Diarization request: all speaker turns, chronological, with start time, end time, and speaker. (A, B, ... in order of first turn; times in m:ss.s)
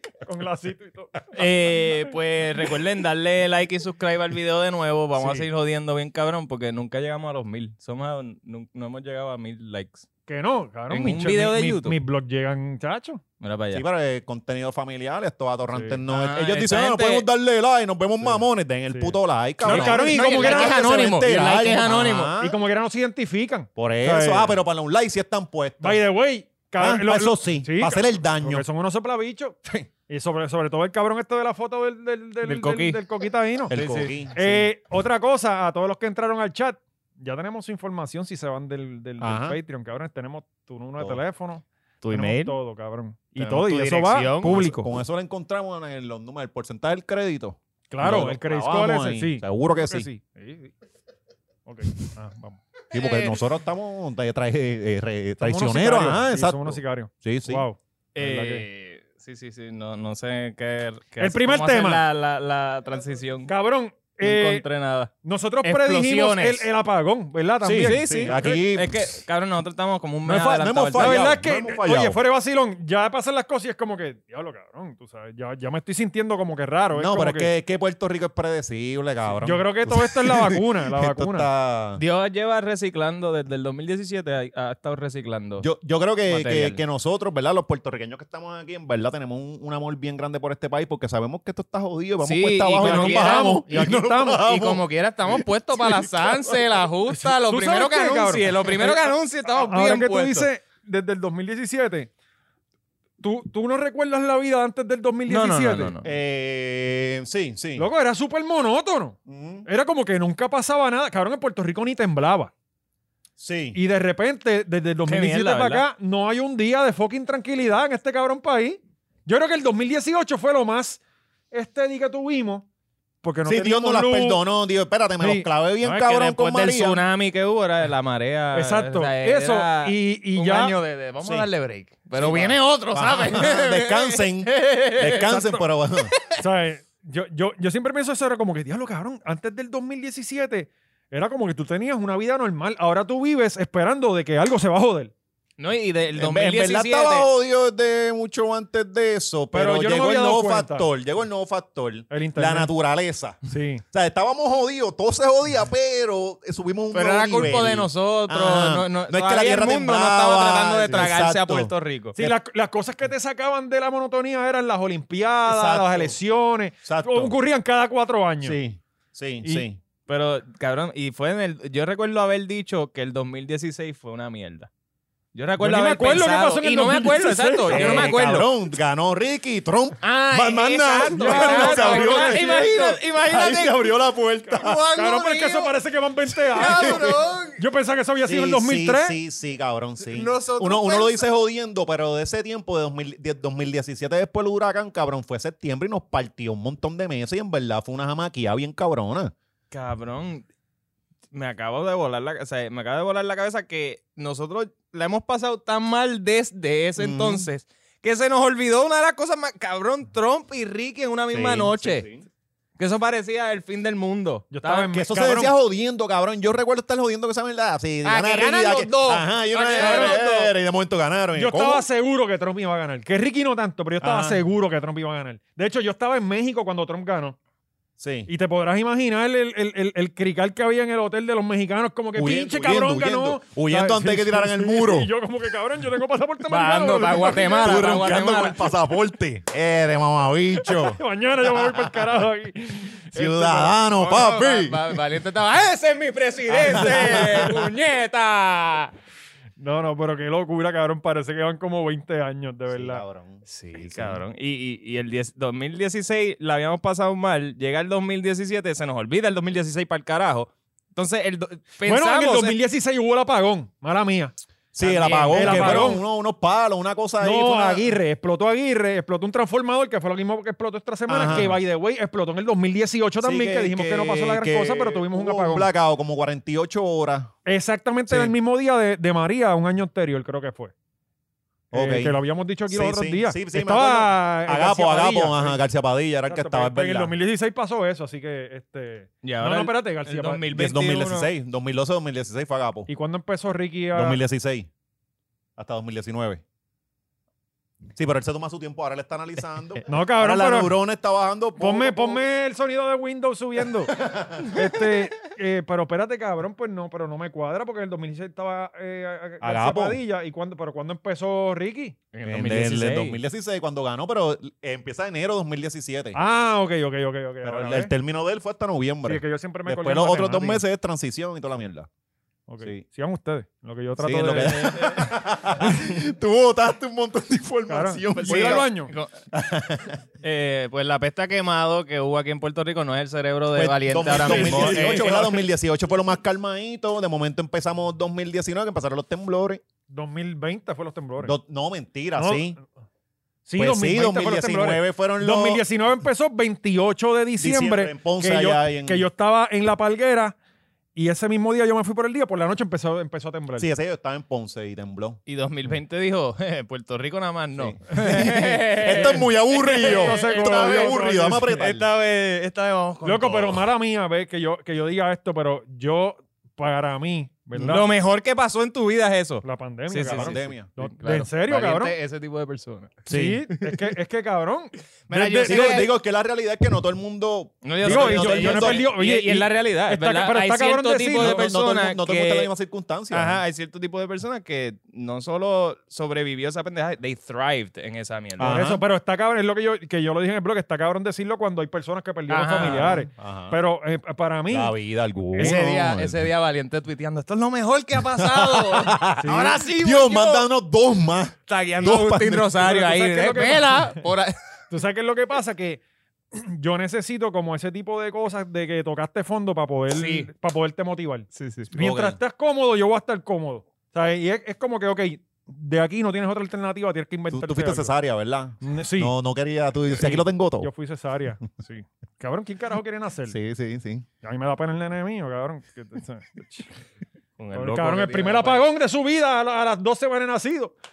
0:00.2-0:01.2 A
0:01.3-0:10.0 B
0:05.2-0:05.5 A
0:10.3-0:13.2 A
0:10.9-0:12.0 B
0:13.4-0:13.8 B
0:13.7-0:22.6 C
0:15.7-0:16.0 A
0:16.1-0:17.3 B
0:18.3-0:20.8 A
0:19.7-0:22.3 B
0:22.4-0:24.6 A
0:23.8-0:26.0 C
0:25.8-0:33.8 A
0:26.8-0:28.6 C
0:32.4-0:33.0 B
0:33.7-0:34.7 C
0:33.7-0:34.1 B
0:34.4-0:44.9 A
0:39.2-0:39.6 C
0:42.0-0:42.6 B
0:43.4-0:44.7 B
0:44.4-0:50.1 C
0:47.9-0:50.7 A
0:51.7-0:52.6 A
0:52.9-0:57.6 C
0:52.9-0:53.4 B
0:55.4-0:58.6 A
0:58.2-1:03.5 B
1:01.2-1:02.0 A
1:03.5-1:04.6 A
1:04.2-1:05.1 B
1:05.2-1:08.4 A
1:05.6-1:06.7 B
1:07.6-1:09.0 C
1:07.8-1:11.4 B
1:10.2-1:12.2 C
1:10.9-1:17.5 A
1:17.0-1:22.0 C
1:19.4-1:21.5 A
1:22.0-1:25.7 B
1:25.6-1:36.6 C
1:26.3-1:26.8 B
1:32.2-1:40.5 B
1:32.8-1:34.4 A
1:37.1-1:42.1 A
1:43.2-1:45.9 A
1:45.3-1:46.1 B
1:46.0-1:47.9 C
1:47.8-1:52.5 A
1:49.3-1:49.7 C
1:53.4-1:53.8 C
1:53.7-2:02.7 A
1:55.1-1:55.8 B
2:03.2-2:04.4 A
2:03.5-2:07.0 C
2:05.2-2:05.5 A
2:05.8-2:15.4 B
2:08.5-2:10.8 A
2:12.2-2:16.1 C
2:15.3-2:15.6 A
2:16.1-2:16.4 B
2:16.4-2:25.1 A
2:25.6-2:27.3 B
2:26.2-2:33.4 C
2:29.5-2:30.9 A
2:32.1-2:32.7 A
2:33.5-2:33.8 A
2:33.9-2:42.4 C
2:36.9-2:42.2 B
2:42.2-2:48.6 A
2:45.5-2:46.2 C
2:46.8-2:47.4 C
2:48.4-2:49.8 C
2:50.1-2:54.7 B
2:55.3-2:58.5 B
2:55.6-2:58.1 A
2:57.7-3:04.8 C
3:00.0-3:03.9 B
3:01.1-3:02.7 A
3:04.5-3:05.7 B
3:05.0-3:09.2 A
3:06.6-3:07.6 B
3:06.6-3:07.1 C
3:08.3-3:19.3 C
3:10.1-3:11.3 B
3:19.7-3:20.5 B
3:21.3-3:32.1 B
3:27.0-3:27.5 C
3:31.3-3:32.2 C
3:32.8-3:34.9 B
3:34.5-3:35.5 A
3:34.9-3:41.9 C
3:38.0-3:40.5 B
3:39.8-3:40.2 A
3:41.4-3:47.4 A
3:44.0-3:44.4 C
3:48.0-3:48.3 C
3:48.3-3:57.9 A
3:52.2-3:55.1 C
3:56.5-3:58.7 B
3:57.6-4:02.1 C
4:00.6-4:04.0 A
4:03.1-4:05.0 C
4:04.0-4:08.9 B
4:06.5-4:07.6 C
4:06.7-4:07.2 A
4:09.6-4:13.0 A
4:12.7-4:14.2 C
4:13.5-4:22.6 B
4:21.8-4:24.4 A
4:24.7-4:27.9 C
4:24.8-4:25.8 B
4:25.3-4:26.0 A
4:27.2-4:35.7 A
4:31.1-4:31.6 C
4:33.2-4:37.3 C
4:37.5-4:40.7 A
4:38.1-4:38.4 C
4:41.7-4:47.2 C
4:41.7-4:45.6 A
4:46.3-4:50.4 A
4:49.2-4:51.3 B
4:50.5-4:52.9 C
4:52.9-4:54.2 A
4:53.9-4:54.7 C
4:55.6-4:56.4 C
4:58.0-5:02.2 C
4:59.9-5:00.8 A
5:01.6-5:12.0 A
5:03.9-5:04.8 C
5:09.4-5:10.0 C
5:12.1-5:13.2 B
5:12.2-5:16.2 C
5:16.1-5:17.9 A
5:17.4-5:21.9 C
5:19.0-5:20.6 A
5:22.5-5:24.8 A
5:24.0-5:28.7 C
5:24.3-5:25.1 B
5:25.6-5:26.0 A
5:27.7-5:28.9 A
5:28.2-5:29.1 B
5:29.3-5:30.0 C
5:30.2-5:35.4 B
5:33.5-5:39.6 C
5:34.1-5:35.2 A
5:39.9-5:41.3 A
5:41.2-5:42.6 C
5:42.2-5:42.6 A
5:43.5-5:50.4 A
5:43.6-5:45.6 C
5:47.4-5:49.1 C
5:51.0-5:53.7 A
5:53.6-5:55.2 C
5:55.3-6:03.6 B
5:57.6-6:01.9 C
5:59.8-6:01.6 A
6:03.0-6:07.9 A
6:07.6-6:13.0 B
6:09.4-6:11.9 A
6:10.0-6:10.7 C
6:13.1-6:13.5 C
6:13.1-6:15.8 A
6:15.1-6:15.9 B
6:15.2-6:18.9 C
6:17.6-6:22.5 B
6:17.8-6:21.5 A
6:21.2-6:23.4 C
6:23.1-6:28.6 B
6:28.4-6:28.8 C
6:28.4-6:34.8 A
6:32.3-6:33.1 B
6:33.2-6:33.6 C
6:34.5-6:36.3 C
6:35.3-6:35.6 A
6:35.4-6:40.5 B
6:38.0-6:42.5 C
6:39.2-6:39.6 A
6:41.5-6:44.4 B
6:42.6-6:44.0 A
6:44.7-6:45.8 A
6:46.3-6:57.9 A
6:49.9-6:50.3 B
6:51.3-6:51.7 B
6:51.7-6:52.2 C
6:57.3-7:00.7 C
6:58.6-6:59.1 A
6:59.9-7:03.4 A
7:03.3-7:04.1 C
7:04.2-7:06.7 A
7:07.4-7:08.7 B
7:07.5-7:10.8 A